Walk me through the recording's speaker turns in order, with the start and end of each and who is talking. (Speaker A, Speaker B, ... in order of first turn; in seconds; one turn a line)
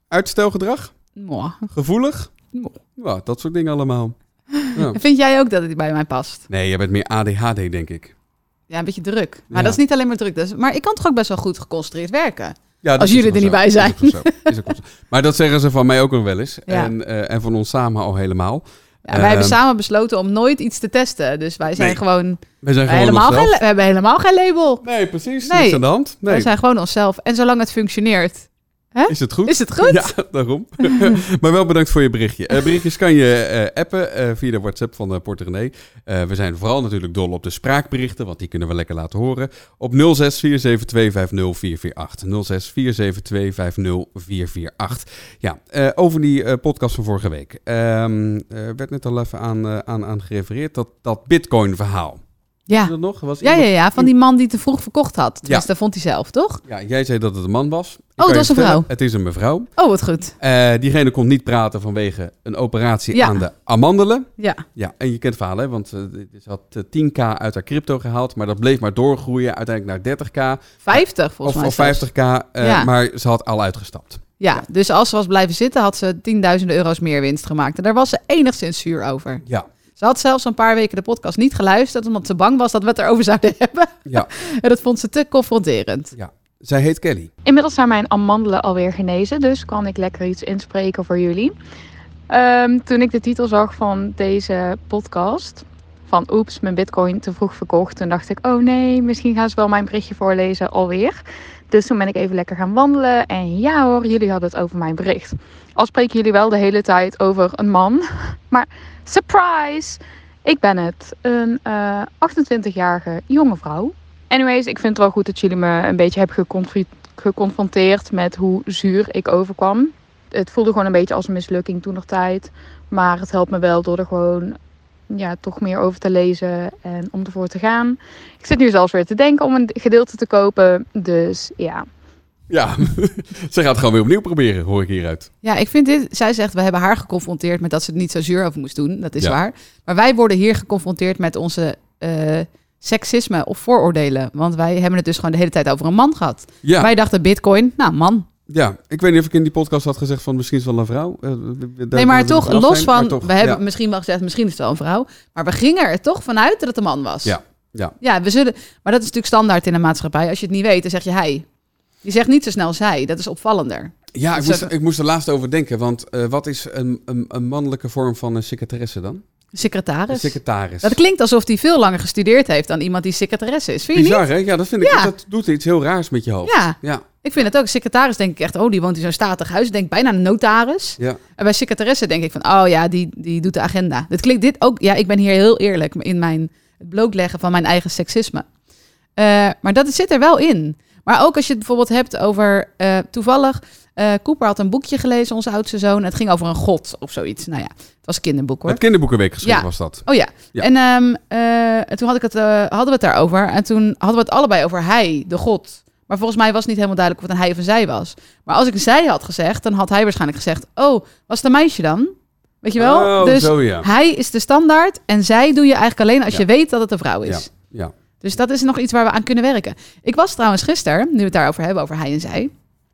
Speaker A: 0.1-0.9
Speaker B: 1.2-1.7
Speaker A: 1.7-2.3
Speaker A: 3.0-4.2
Speaker B: 4.6-6.4
Speaker A: 4.7-5.0
Speaker A: 6.5-8.1
Speaker B: 8.7-14.4
Speaker A: 9.5-9.8
Speaker A: 12.8-19.6
Speaker B: 19.1-24.9
Speaker A: 22.6-23.6
Speaker A: 24.8-26.5
Speaker B: 25.4-30.1
Speaker A: 29.1-52.2
Speaker B: 30.8-31.1
Speaker B: 52.7-56.6
Speaker A: 52.8-54.1
Speaker A: 56.7-59.7
Speaker B: 58.2-58.9
Speaker B: 59.8-60.3
Speaker A: 60.4-74.3
Speaker B: 63.1-63.4
Speaker B: 70.8-72.1
Speaker B: 72.6-72.9
Speaker B: 74.4-79.4
Speaker B: 80.0-86.1
Speaker A: 86.2-87.3
Speaker C: 87.5-91.5
Speaker C: 92.3-124.6
Speaker C: 125.1-131.9
Speaker A: 132.5-135.3
Speaker B: 135.4-148.3
Speaker A: 146.6-146.9
Speaker A: 148.5-153.6
Speaker B: 151.9-157.3
Speaker A: 157.2-157.9
Speaker B: 158.0-161.4
Speaker B: 162.0-164.7
Speaker A: 164.2-169.2
Speaker B: 169.5-174.2
Speaker A: 170.1-171.0
Speaker A: 173.9-177.1
Speaker B: 174.8-175.1
Speaker B: 176.4-188.4
Speaker B: 189.2-198.8
Speaker A: 198.7-200.7
Speaker B: 199.4-217.5
Speaker A: 212.8-213.9
Speaker A: 217.3-217.9
Speaker B: 218.2-222.5